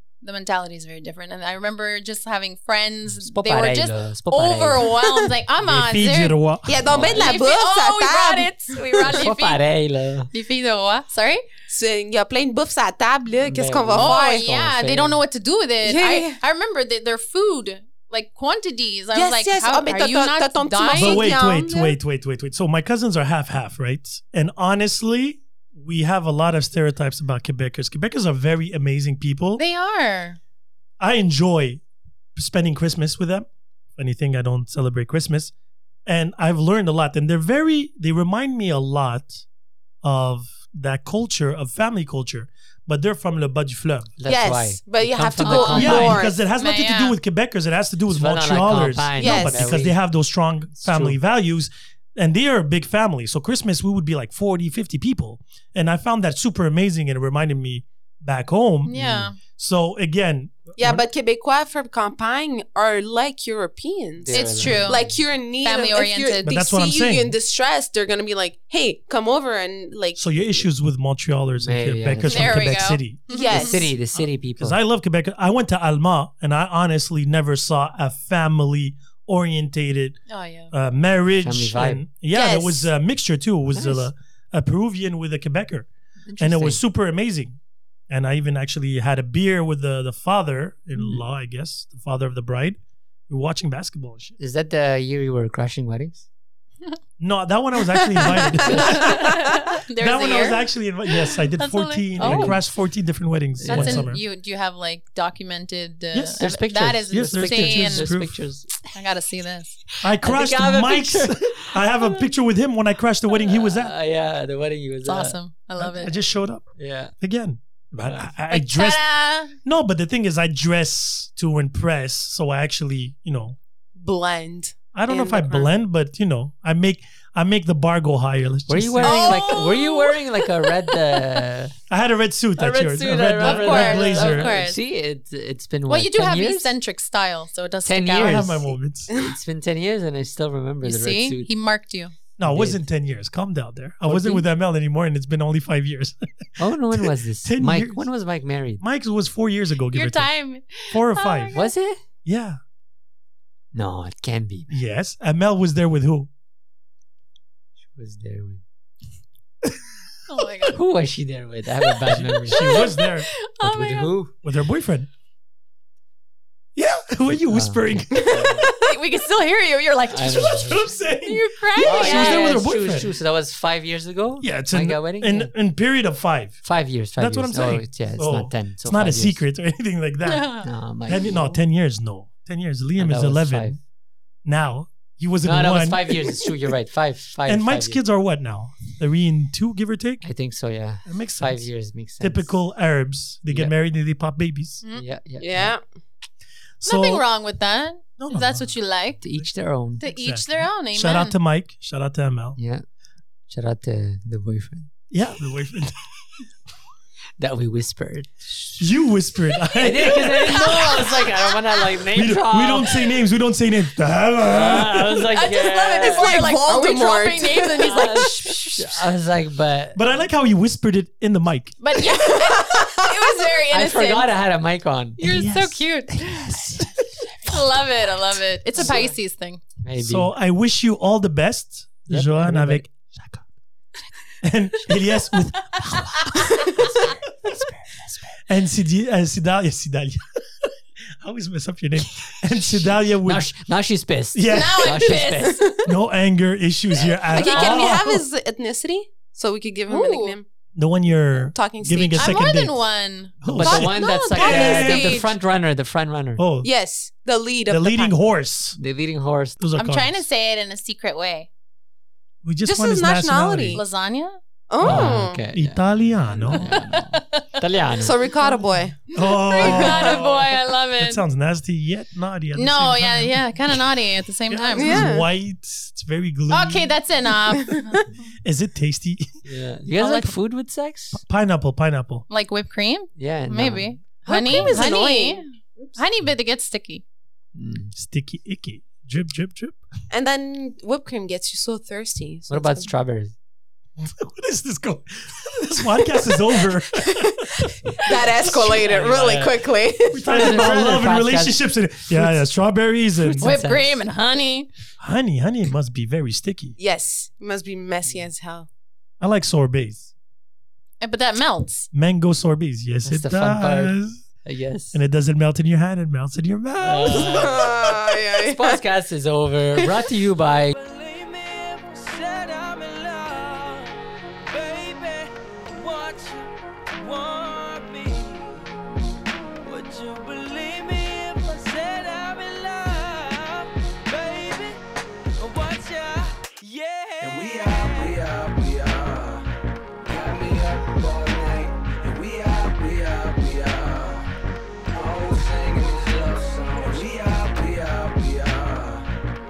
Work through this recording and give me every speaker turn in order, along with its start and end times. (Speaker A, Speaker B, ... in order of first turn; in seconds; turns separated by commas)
Speaker A: 0.2-6.3, Speaker B: 3.1-4.9, Speaker C: 5.6-7.1, Speaker D: 6.7-9.2, Speaker B: 6.8-7.3, Speaker A: 7.0-9.6, Speaker B: 9.2-10.3, Speaker A: 10.3-11.4, Speaker D: 11.7-14.4, Speaker B: 13.4-15.2, Speaker A: 13.9-21.3, Speaker D: 15.8-16.4, Speaker D: 19.1-21.9, Speaker C: 20.9-29.6, Speaker A: 29.6-30.4, Speaker C: 31.0-31.8, Speaker C: 32.4-35.5, Speaker C: 36.0-39.4, Speaker C: 40.0-44.1, Speaker B: 44.2-46.2, Speaker D: 44.3-46.4, Speaker A: 45.4-47.2, Speaker C: 45.5-61.0, Speaker B: 48.1-50.0, Speaker D: 49.2-49.8, Speaker B: 50.8-51.2, Speaker A: 58.8-59.4, Speaker B: 58.9-59.3, Speaker D: 60.8-70.6, Speaker B: 64.2-65.1, Speaker A: 64.3-65.0, Speaker A: 65.6-66.5, Speaker C: 66.5-67.3, Speaker C: 70.2-73.2, Speaker B: 71.6-72.8, Speaker A: 72.3-73.8, Speaker D: 73.3-73.9, Speaker B: 73.5-74.8, Speaker C: 74.1-80.2, Speaker A: 80.3-80.7, Speaker C: 80.7-85.9, Speaker B: 81.4-82.0, Speaker D: 82.3-82.9, Speaker B: 83.7-84.1, Speaker B: 86.2-86.8, Speaker C: 86.4-87.6, Speaker C: 88.1-92.8, Speaker B: 91.0-91.2, Speaker C: 93.3-94.3, Speaker B: 94.4-96.2, Speaker C: 97.2-104.2, Speaker D: 98.2-99.6, Speaker B: 98.6-99.2, Speaker A: 98.7-100.6, Speaker A: 101.6-102.6, Speaker B: 102.2-102.6, Speaker B: 103.6-104.1, Speaker A: 103.7-108.1, Speaker C: 106.1-108.4, Speaker B: 106.4-108.9, Speaker A: 108.9-109.8, Speaker C: 110.0-113.9, Speaker B: 110.2-112.3, Speaker B: 113.3-115.4, Speaker A: 115.0-116.1, Speaker C: 115.8-123.5, Speaker B: 116.8-117.1, Speaker B: 118.0-118.3, Speaker A: 118.5-119.5, Speaker D: 124.0-125.7, Speaker C: 124.9-129.4, Speaker B: 128.7-131.7, Speaker A: 129.0-130.2, Speaker D: 129.2-129.7, Speaker C: 131.9-134.6, Speaker B: 132.6-136.7, Speaker A: 133.4-134.8, Speaker A: 135.9-138.7, Speaker B: 137.8-141.5, Speaker C: 138.1-139.1, Speaker A: 140.8-142.1, Speaker C: 142.4-148.1, Speaker B: 142.4-142.8, Speaker B: 144.0-144.4, Speaker B: 146.6-148.8, Speaker C: 148.8-151.5, Speaker A: 149.9-151.7, Speaker B: 151.5-152.0, Speaker C: 152.2-152.6, Speaker B: 153.7-154.8, Speaker C: 154.7-156.3, Speaker B: 157.8-158.6, Speaker A: 160.3-160.8, Speaker B: 160.6-162.9, Speaker C: 162.1-163.3, Speaker A: 162.2-164.1, Speaker B: 163.6-164.3, Speaker C: 164.4-165.1, Speaker C: 166.8-168.7, Speaker B: 167.5-168.7, Speaker D: 168.3-168.7, Speaker A: 168.5-172.5, Speaker B: 170.1-170.9, Speaker C: 170.2-173.1, Speaker B: 171.8-175.5, Speaker C: 174.4-176.6, Speaker B: 176.6-179.4, Speaker C: 177.2-183.8, Speaker A: 180.2-180.7, Speaker B: 180.6-181.6, Speaker B: 183.0-183.8, Speaker C: 184.4-186.5, Speaker B: 185.4-188.0, Speaker C: 187.4-190.2, Speaker B: 190.2-192.5, Speaker C: 191.0-194.8, Speaker B: 193.5-193.7, Speaker B: 194.9-195.7, Speaker D: 195.4-195.8, Speaker C: 196.8-197.2, Speaker A: 196.8-199.2, Speaker C: 198.2-198.8, Speaker B: 199.2-200.0, Speaker A: 200.0-201.3, Speaker C: 200.0-202.6, Speaker B: 202.6-202.8, Speaker B: 203.5-204.9, Speaker C: 205.1-206.1, Speaker B: 207.4-208.8, Speaker C: 208.8-211.0, Speaker B: 209.8-213.1, Speaker A: 210.7-211.1, Speaker C: 212.1-215.3, Speaker B: 214.4-216.4, Speaker A: 215.3-219.0, Speaker D: 216.1-218.3, Speaker B: 217.8-220.0, Speaker C: 219.9-221.8, Speaker A: 221.8-224.3, Speaker D: 222.0-223.4, Speaker B: 223.7-225.2, Speaker A: 225.2-226.9, Speaker C: 225.2-227.3, Speaker A: 227.4-229.6, Speaker B: 228.7-229.1, Speaker B: 229.8-230.3, Speaker C: 230.0-233.4, Speaker B: 232.1-232.8, Speaker C: 234.4-237.0, Speaker A: 236.2-236.8, Speaker B: 236.6-238.4, Speaker C: 238.4-243.5, Speaker B: 242.7-245.6, Speaker C: 244.3-245.2, Speaker A: 244.5-245.7, Speaker D: 244.5-245.9, Speaker C: 245.8-248.2, Speaker D: 247.3-250.4, Speaker A: 247.3-247.9, Speaker B: 247.4-247.9, Speaker A: 249.9-250.4, Speaker C: 250.8-252.8, Speaker D: 251.3-252.5, Speaker A: 252.2-253.4, Speaker C: 253.4-255.3, Speaker B: 253.4-256.4, Speaker D: 253.6-255.2, Speaker A: 254.1-254.5, Speaker C: 256.4-256.7, Speaker D: 256.6-258.1, Speaker C: 257.7-258.8, Speaker B: 258.8-259.6, Speaker C: 259.6-260.2, Speaker A: 259.8-261.5, Speaker C: 262.4-263.8, Speaker D: 262.6-263.8, Speaker A: 263.7-264.4, Speaker D: 264.7-265.4, Speaker C: 264.8-266.8, Speaker B: 264.8-268.2, Speaker A: 266.5-267.6, Speaker D: 268.0-269.0, Speaker A: 268.4-268.7, Speaker C: 269.1-273.9, Speaker A: 269.3-271.2, Speaker D: 269.6-270.2, Speaker A: 272.6-275.1, Speaker C: 274.5-277.0, Speaker D: 274.8-275.3, Speaker A: 276.5-278.1, Speaker C: 278.4-279.3, Speaker B: 279.4-281.2, Speaker A: 280.0-280.3, Speaker C: 281.1-282.3, Speaker A: 282.3-287.0, Speaker B: 283.1-284.0, Speaker D: 284.3-285.9, Speaker B: 284.5-284.8, Speaker B: 287.5-287.9, Speaker C: 287.9-289.8, Speaker D: 290.1-292.9, Speaker B: 292.5-293.3, Speaker C: 294.0-298.8, Speaker D: 297.0-300.6, Speaker B: 298.4-299.7, Speaker C: 300.1-303.6, Speaker B: 300.2-302.4, Speaker B: 303.1-303.9, Speaker A: 303.4-304.7, Speaker C: 305.0-306.8, Speaker D: 306.8-308.7, Speaker C: 309.2-310.1, Speaker A: 311.0-311.9, Speaker C: 311.9-314.2, Speaker B: 313.0-315.0, Speaker C: 314.9-317.5, Speaker B: 316.8-320.8, Speaker D: 317.1-318.8, Speaker E: 320.8-323.4, Speaker F: 320.8-323.9, Speaker E: 324.5-325.2, Speaker F: 324.5-325.3, Speaker F: 325.8-326.5, Speaker E: 325.8-326.4, Speaker E: 327.1-328.3, Speaker F: 327.1-328.5, Speaker E: 329.6-332.9, Speaker F: 329.7-334.8, Speaker E: 334.1-334.7, Speaker F: 335.4-337.5, Speaker E: 335.4-339.4, Speaker E: 340.0-344.3, Speaker E: 344.9-349.0